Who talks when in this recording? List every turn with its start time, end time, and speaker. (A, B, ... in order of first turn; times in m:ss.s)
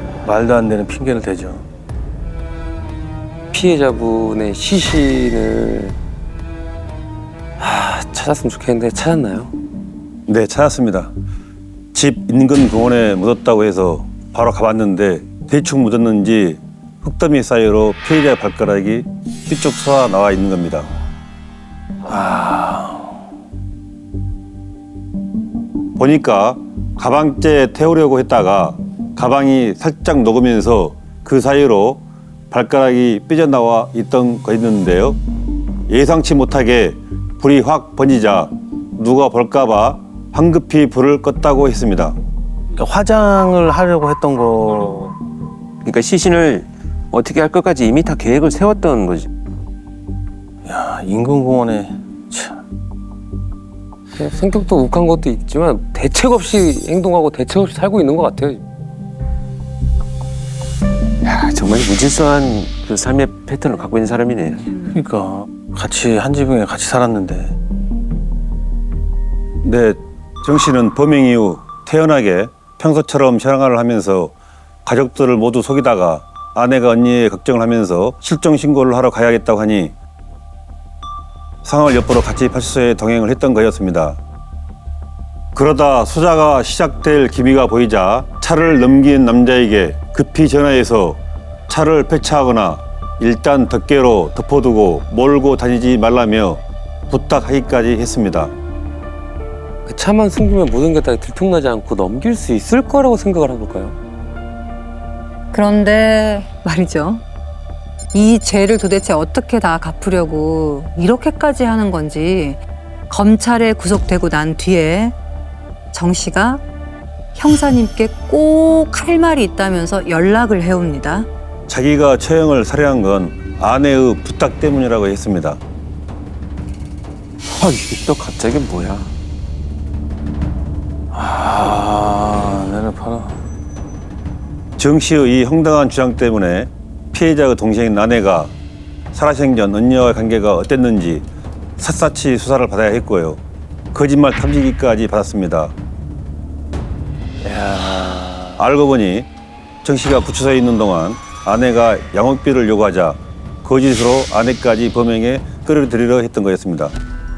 0:00.2-0:01.6 A
0:03.5-0:06.0 B
0:07.6-0:09.5 B
0:10.3-0:11.1 C
0:11.9-0:20.9 C
0:22.1-0:23.2 A
0:26.0-0:35.2 C
0:35.9-0:42.2 C
0:42.8-0:45.1 A
0:45.8-0:49.3 D
0:50.6-0:52.6 A
0:54.2-0:58.6 B
1:01.2-1:04.7 D
1:04.9-1:07.6 A
1:09.6-1:14.3 C
1:14.8-1:20.0 C
1:21.6-1:24.2 C
1:25.5-1:38.5 C
1:39.9-1:44.0 B
1:45.5-1:47.2 E
1:48.1-1:52.6 E
1:53.1-1:55.2 E
1:55.9-1:56.6 E
1:57.4-2:01.3 E
2:01.7-2:05.6 C
2:07.5-2:09.1 D
2:11.1-2:13.4 A
2:14.8-2:18.5 C
2:19.1-2:21.2 C
2:21.8-2:23.4 C
2:23.9-2:25.7 C
2:27.4-2:28.6 A
2:28.6-2:29.3 C
2:29.8-2:37.0 C